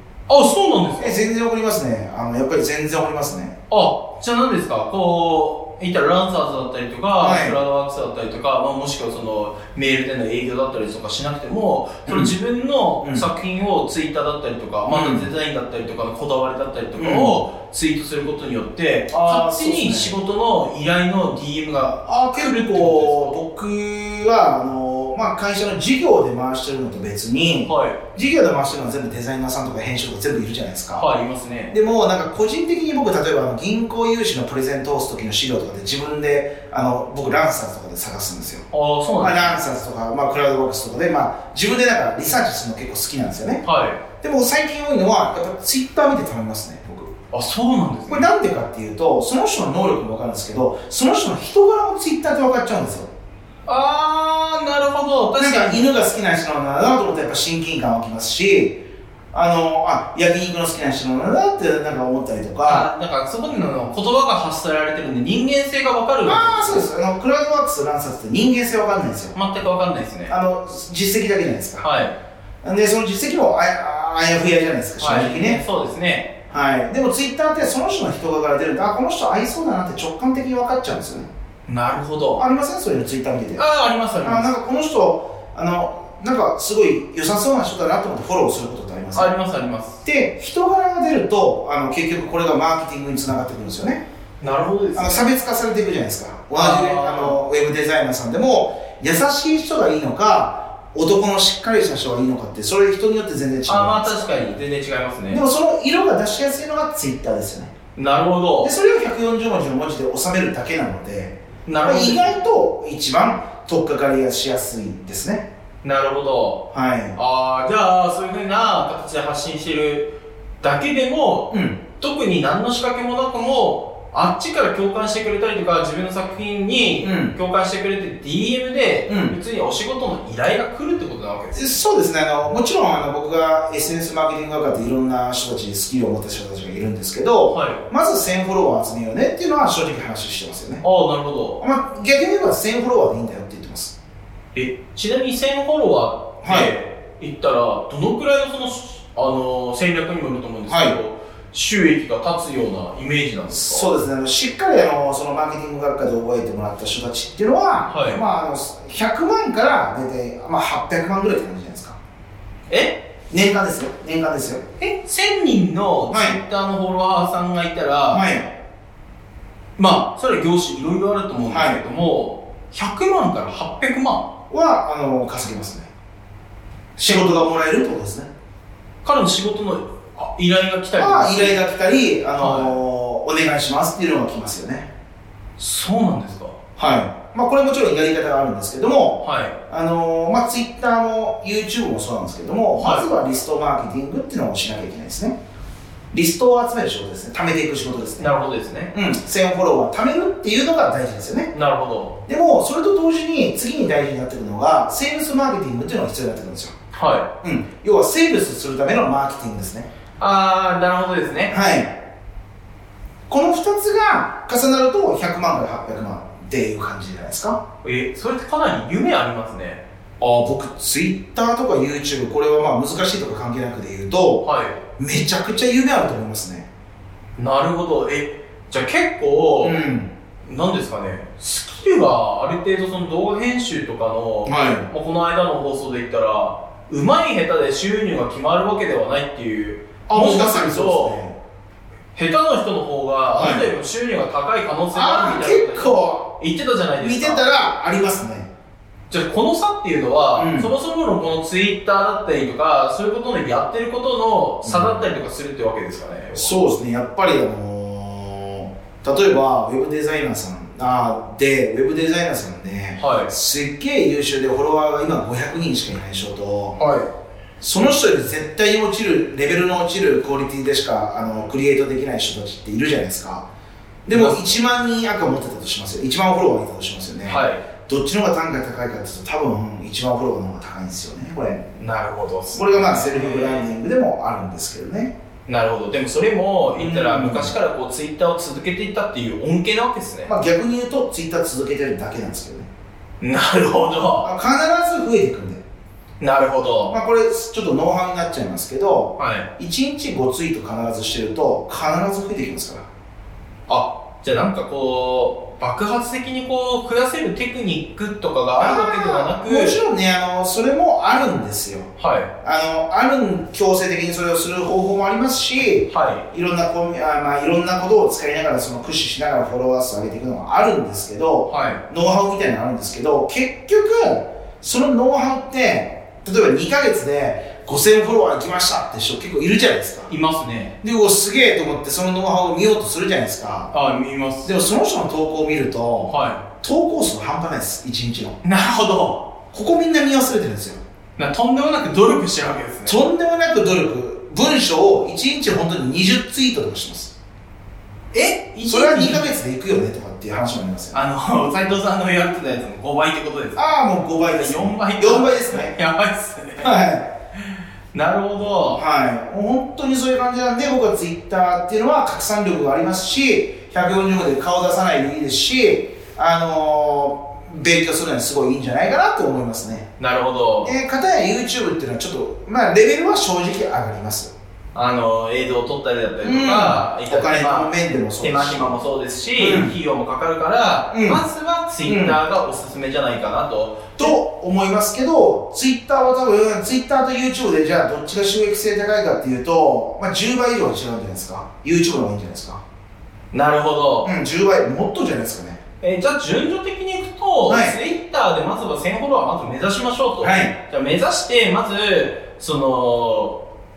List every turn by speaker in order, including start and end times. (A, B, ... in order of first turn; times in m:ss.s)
0:00.3-0:01.2 A
0:00.9-0:03.5 B
0:03.7-0:23.4 A
0:07.2-0:07.6 B
0:12.1-0:12.3 B
0:13.0-0:13.3 B
0:14.9-0:15.3 B
0:17.0-0:17.4 B
0:19.1-0:20.2 B
0:22.0-0:31.1 B
0:27.6-0:28.0 A
0:30.9-0:31.7 A
0:31.7-0:43.6 B
0:38.7-0:39.6 A
0:43.6-0:44.0 A
0:44.2-0:47.1 B
0:47.3-0:48.3 A
0:48.1-0:53.1 B
0:53.6-0:55.9 A
0:55.4-1:02.9 B
1:02.6-1:06.9 A
1:06.2-1:09.4 B
1:09.3-1:10.4 A
1:10.3-1:11.8 B
1:11.8-1:12.1 A
1:12.6-1:15.6 B
1:15.0-1:16.3 A
1:16.5-1:21.3 B
1:21.7-1:22.4 A
1:22.3-1:23.6 B
1:23.6-1:24.5 A
1:24.2-1:29.3 B
1:29.1-1:30.0 A
1:30.0-1:34.0 B
1:34.4-1:35.2 A
1:34.9-1:44.2 B
1:36.5-1:37.4 A
1:43.6-1:45.4 A
1:45.3-1:47.7 B
1:48.0-1:48.7 A
1:48.6-1:55.4 B
1:51.6-1:52.3 A
1:55.8-2:11.8 A
1:56.7-1:57.2 B
2:01.5-2:01.8 B
2:07.0-2:07.3 B
2:09.1-2:09.4 B
2:11.5-2:20.8 B
2:17.5-2:17.8 A
2:20.8-2:21.6 A
2:21.6-2:23.9 B
2:24.5-2:33.9 A
2:26.4-2:26.7 B
2:30.7-2:31.0 B
2:33.5-2:42.0 B
2:37.9-2:38.2 A
2:42.7-2:43.0 A
2:43.3-2:44.6 B
2:44.8-2:48.2 A
2:46.1-2:46.4 B
2:48.1-2:48.5 B
2:49.8-2:54.3 A
2:51.4-2:51.8 B
2:54.5-2:55.9 B
2:57.0-2:58.3 B
2:59.0-3:01.6 A
3:00.9-3:04.9 B
3:02.4-3:02.8 A
3:05.6-3:06.5 A
3:06.8-3:15.4 B
3:09.2-3:09.5 A
3:12.8-3:13.1 A
3:16.1-3:18.3 B
3:18.2-3:18.9 A
3:18.9-3:21.5 B
3:21.5-3:22.2 A
3:22.2-3:26.7 B
3:26.9-3:27.3 A
3:27.4-3:29.9 B
3:30.2-3:31.5 A
3:31.5-3:32.0 B
3:33.3-3:37.6 B
3:37.8-3:39.8 A
3:40.2-3:44.4 B
3:44.4-3:44.8 A
3:45.0-3:46.7 B
3:47.4-3:49.8 A
3:49.6-3:50.1 B
3:50.4-4:01.2 A
3:54.4-3:54.9 B
4:00.1-4:01.4 B
4:02.1-4:07.4 A
4:03.3-4:03.7 B
4:04.9-4:06.3 B
4:07.0-4:08.5 B
4:09.1-4:16.5 A
4:10.3-4:10.7 B
4:14.6-4:15.0 B
4:16.3-4:26.8 B
4:23.0-4:23.3 A
4:26.8-4:27.1 A
4:27.6-4:33.4 B
4:34.0-4:41.6 B
4:34.1-4:34.4 A
4:37.2-4:37.6 A
4:41.7-4:43.7 A
4:42.5-4:45.1 B
4:45.5-4:50.3 A
4:46.7-4:47.6 B
4:50.2-4:52.7 B
4:53.2-4:54.3 A
4:54.2-4:55.6 B
4:56.2-4:57.0 A
4:56.9-5:02.8 B
4:59.2-4:59.5 A
5:03.7-5:09.8 A
5:08.6-5:11.9 B
5:12.0-5:12.3 A
5:12.4-5:30.1 B
5:15.9-5:16.2 A
5:21.5-5:21.8 A
5:30.1-5:30.7 A
5:30.8-5:33.7 B
5:33.7-5:34.5 A
5:34.4-5:38.4 B
5:36.1-5:36.4 A
5:38.4-5:39.3 A
5:39.5-5:40.8 B
5:41.2-5:43.0 A
5:42.8-5:47.1 B
5:48.1-5:49.3 A
5:48.6-5:51.0 B
5:50.9-5:53.7 A
5:53.5-5:55.7 B
5:54.4-5:56.7 A
5:56.6-5:57.1 B
5:57.9-5:58.8 A
5:58.7-6:09.9 B
6:10.0-6:10.8 A
6:10.6-6:14.3 B
6:14.7-6:24.2 A
6:16.2-6:18.7 B
6:19.3-6:19.8 B
6:20.9-6:21.2 B
6:21.8-6:22.2 B
6:24.0-6:32.6 B
6:33.3-6:34.1 A
6:34.0-6:35.6 B
6:35.8-6:43.4 A
6:37.4-6:37.8 B
6:40.2-6:40.5 B